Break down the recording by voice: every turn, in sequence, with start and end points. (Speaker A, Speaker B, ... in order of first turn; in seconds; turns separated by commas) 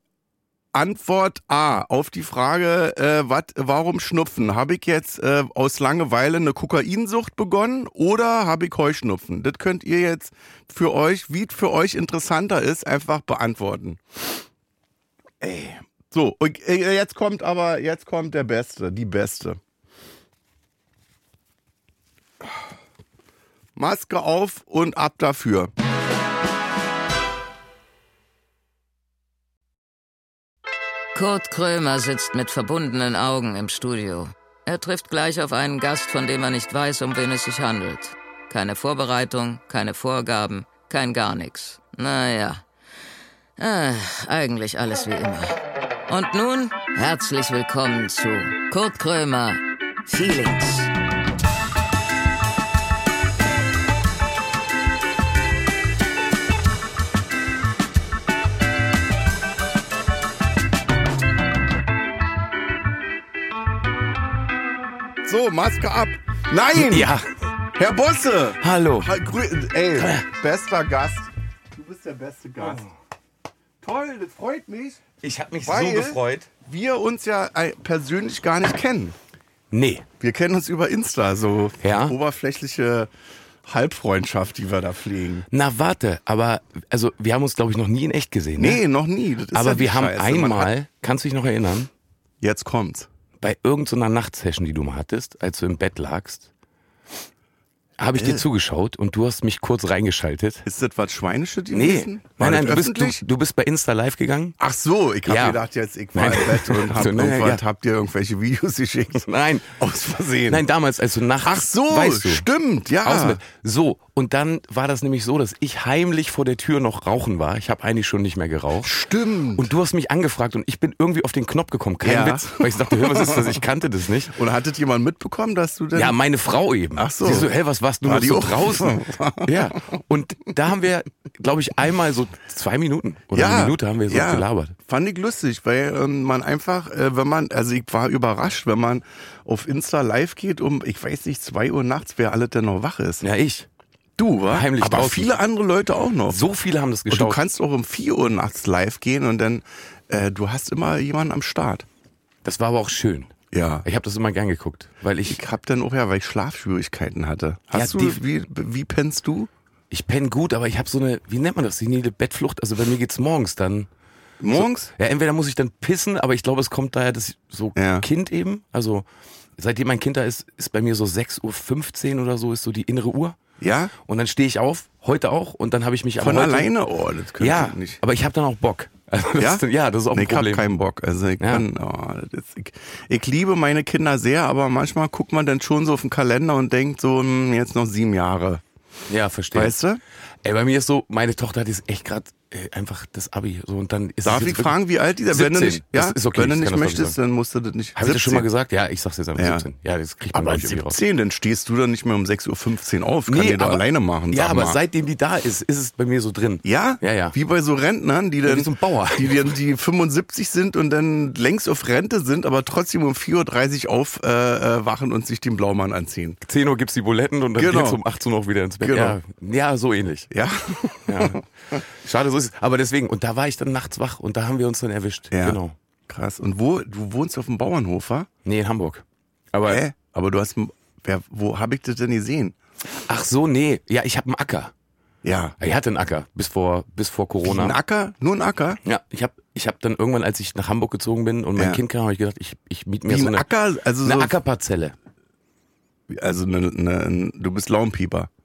Speaker A: 0.7-14.4, Speaker A: 15.4-19.6, Speaker A: 23.8-25.7, Speaker B: 31.1-42.6, Speaker B: 43.6-50.9, Speaker A: 65.2-67.1, Speaker C: 66.7-67.2, Speaker A: 67.7-72.9, Speaker C: 68.6-69.1, Speaker C: 69.9-70.2, Speaker C: 72.6-72.9, Speaker A: 73.8-75.0, Speaker C: 75.2-76.5, Speaker A: 75.6-79.2, Speaker C: 79.7-80.1, Speaker A: 80.2-83.1, Speaker C: 81.8-82.2, Speaker A: 83.6-85.5, Speaker C: 85.5-88.8, Speaker A: 88.5-90.7, Speaker C: 89.5-91.9, Speaker A: 92.4-93.1, Speaker C: 93.4-96.5, Speaker C: 98.0-100.7, Speaker A: 98.1-98.4, Speaker A: 100.6-103.2, Speaker C: 101.7-104.5, Speaker A: 104.6-109.2, Speaker C: 105.2-105.6, Speaker C: 106.1-107.6, Speaker C: 109.2-109.7, Speaker A: 109.8-110.6, Speaker C: 110.5-112.4, Speaker A: 111.4-113.4, Speaker C: 113.0-118.9, Speaker A: 118.8-119.7, Speaker C: 119.6-124.3, Speaker A: 122.0-123.6, Speaker A: 124.3-126.2, Speaker C: 125.9-134.7, Speaker A: 127.0-130.0, Speaker A: 133.3-143.2, Speaker C: 143.2-143.7, Speaker A: 144.2-146.4, Speaker C: 144.5-145.3, Speaker C: 146.3-147.4, Speaker A: 147.1-151.8, Speaker C: 152.4-153.3, Speaker A: 153.5-153.8, Speaker C: 153.8-155.4, Speaker A: 155.3-159.5, Speaker C: 157.7-158.2, Speaker C: 159.9-163.9, Speaker A: 164.4-164.9, Speaker C: 164.5-169.0, Speaker A: 167.8-168.1, Speaker C: 169.6-173.3, Speaker A: 173.6-173.9, Speaker C: 174.0-176.7, Speaker A: 176.2-178.0, Speaker C: 177.4-180.6, Speaker A: 179.4-188.6, Speaker C: 189.1-189.8, Speaker A: 189.5-190.0, Speaker C: 190.4-194.8, Speaker A: 194.2-198.5, Speaker C: 195.3-197.2, Speaker C: 198.0-201.0, Speaker A: 199.4-199.7, Speaker A: 200.3-204.8, Speaker C: 203.3-207.3, Speaker A: 206.6-216.4, Speaker C: 208.4-209.4, Speaker C: 216.4-220.3, Speaker A: 217.6-218.0, Speaker A: 218.8-219.2, Speaker A: 220.3-221.8, Speaker C: 221.1-225.7, Speaker A: 225.3-228.3, Speaker C: 228.4-229.8, Speaker A: 229.7-232.6, Speaker C: 233.1-234.7, Speaker A: 235.2-235.6, Speaker C: 235.6-237.8, Speaker A: 237.4-238.8, Speaker C: 238.8-243.4, Speaker A: 241.6-241.8, Speaker A: 243.1-244.4, Speaker C: 244.0-244.9, Speaker A: 246.1-248.3